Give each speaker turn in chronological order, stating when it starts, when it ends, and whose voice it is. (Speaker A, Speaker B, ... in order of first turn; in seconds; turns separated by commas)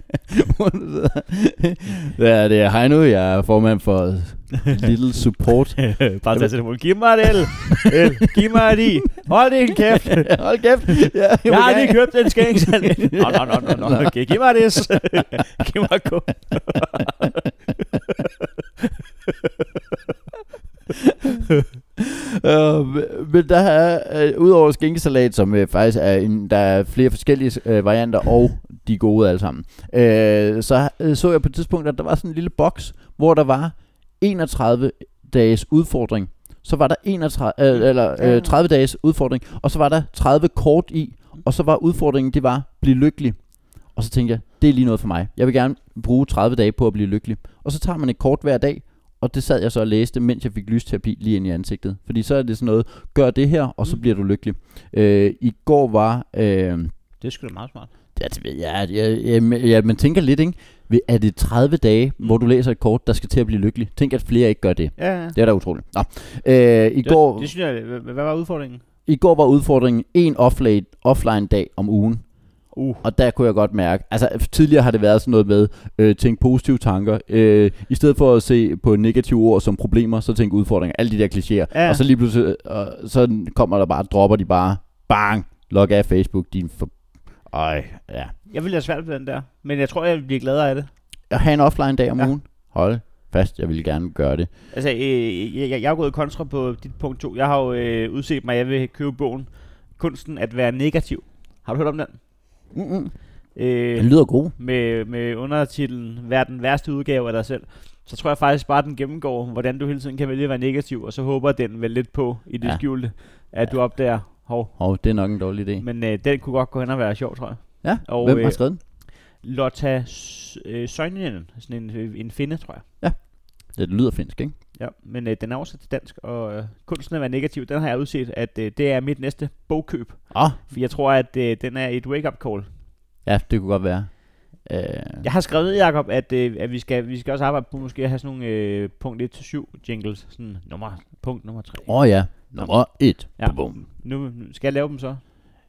Speaker A: 0.3-8.0, Speaker B: 5.8-10.5, Speaker A: 10.1-14.1, Speaker B: 11.4-17.5, Speaker A: 22.0-56.9, Speaker B: 37.8-38.6, Speaker B: 57.2-57.9, Speaker A: 58.2-67.5, Speaker B: 65.0-65.4, Speaker B: 67.0-68.8, Speaker A: 69.1-88.3, Speaker B: 72.7-73.0, Speaker B: 81.7-82.0, Speaker B: 88.5-90.9, Speaker A: 91.3-94.5, Speaker B: 94.7-102.2, Speaker A: 102.7-104.5, Speaker B: 103.5-115.2, Speaker A: 112.6-115.8, Speaker B: 115.8-122.9, Speaker A: 117.8-118.8, Speaker A: 123.0-124.5, Speaker B: 124.8-132.7, Speaker A: 130.3-130.6, Speaker A: 133.2-135.3, Speaker B: 135.2-145.2, Speaker A: 141.9-143.8